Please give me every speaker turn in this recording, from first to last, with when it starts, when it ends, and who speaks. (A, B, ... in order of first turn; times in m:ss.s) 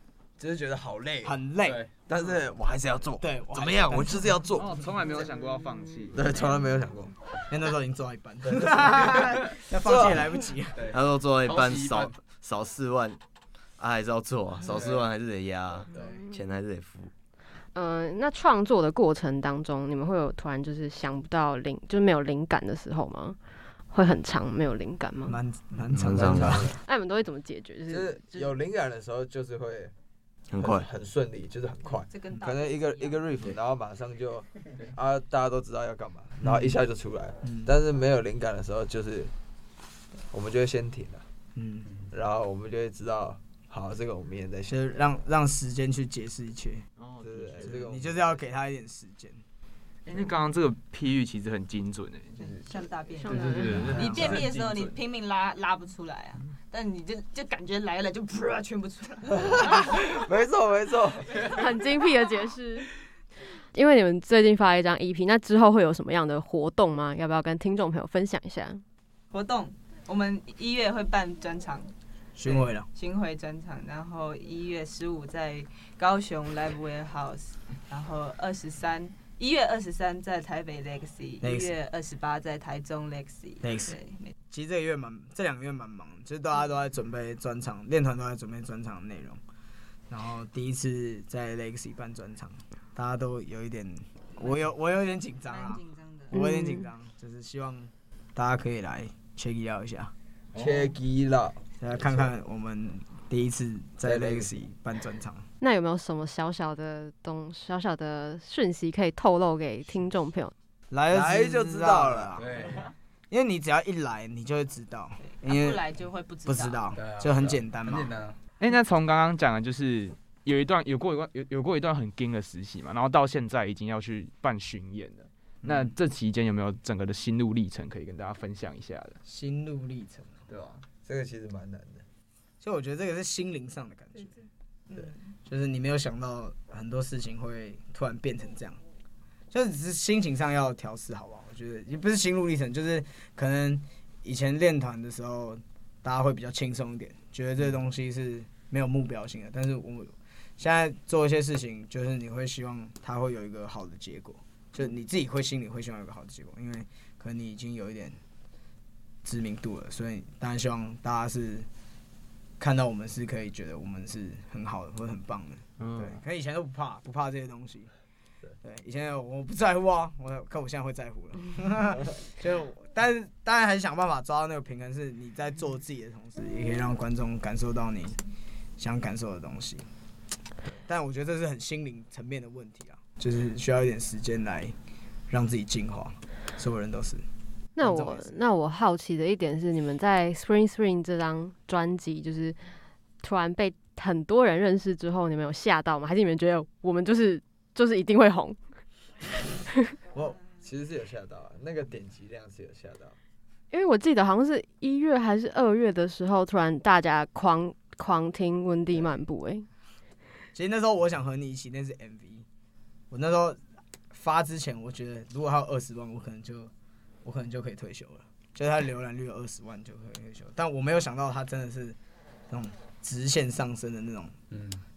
0:00.4-0:01.4 A
0:01.2-0:01.8 B
0:01.6-0:01.9 C
0:02.0-0:04.9 A
0:03.2-0:04.4 B
0:04.6-0:06.2 D
0:06.1-0:07.2 A
0:07.5-0:10.9 B
0:08.4-0:10.4 A
0:10.8-0:12.2 C
0:10.9-0:13.2 E
0:13.8-0:17.1 E
0:14.6-0:15.0 C
0:17.8-0:23.4 F
0:23.9-0:25.4 F
0:25.3-0:26.8 B
0:25.9-0:26.7 E
0:26.8-0:28.5 F
0:27.9-0:29.9 A
0:30.5-0:30.9 E
0:30.6-0:39.3 A
0:32.1-0:33.2 G
0:37.4-0:37.7 B
0:40.3-0:41.2 A
0:41.6-0:41.9 B
0:42.1-0:44.8 A
0:44.7-0:46.8 B
0:47.0-0:47.7 D
0:47.2-0:48.4 A
0:47.6-0:49.4 B
0:50.0-0:52.7 D
0:52.4-1:00.2 G
0:53.2-0:53.9 F
0:53.2-0:55.0 D
0:53.8-0:54.4 B
0:59.3-1:01.6 A
1:01.4-1:02.9 F
1:03.7-1:08.8 F
1:09.3-1:11.9 G
1:12.4-1:12.9 B
1:12.4-1:24.3 G
1:21.4-1:21.7 B
1:23.6-1:24.0 B
1:24.5-1:29.4 B
1:30.1-1:40.1 B
1:35.5-1:36.4 G
1:36.3-1:36.9 F
1:40.5-1:42.3 A
1:40.6-1:40.9 D
1:41.8-1:45.4 B
1:44.0-1:44.5 A
1:45.6-1:50.5 F
1:50.9-1:55.8 B
1:51.1-1:52.6 A
1:52.4-1:52.9 C
1:55.2-1:56.9 G
1:56.5-1:58.1 B
1:57.0-1:58.4 C
1:58.6-2:09.2 D
2:05.6-2:05.9 B
2:09.2-2:10.4 B
2:10.5-2:10.8 D
2:11.0-2:12.0 A
2:12.6-2:14.4 B
2:14.9-2:15.2 G
2:15.4-2:18.8 B
2:19.5-2:38.2 B
2:39.2-2:41.7 B
2:42.6-2:47.9 B
2:48.6-2:58.2 B
2:58.8-2:59.9 B
3:00.7-3:04.7 B
3:05.3-3:07.2 B
3:07.8-3:12.6 F
3:07.8-3:08.4 B
3:13.2-3:18.6 F
3:20.6-3:23.2 A
3:23.7-3:29.7 F
3:30.5-3:32.4 B
3:33.1-3:33.6 B
3:34.1-3:36.7 B
3:37.2-3:42.0 B
3:42.5-3:44.4 B
3:44.5-3:44.8 C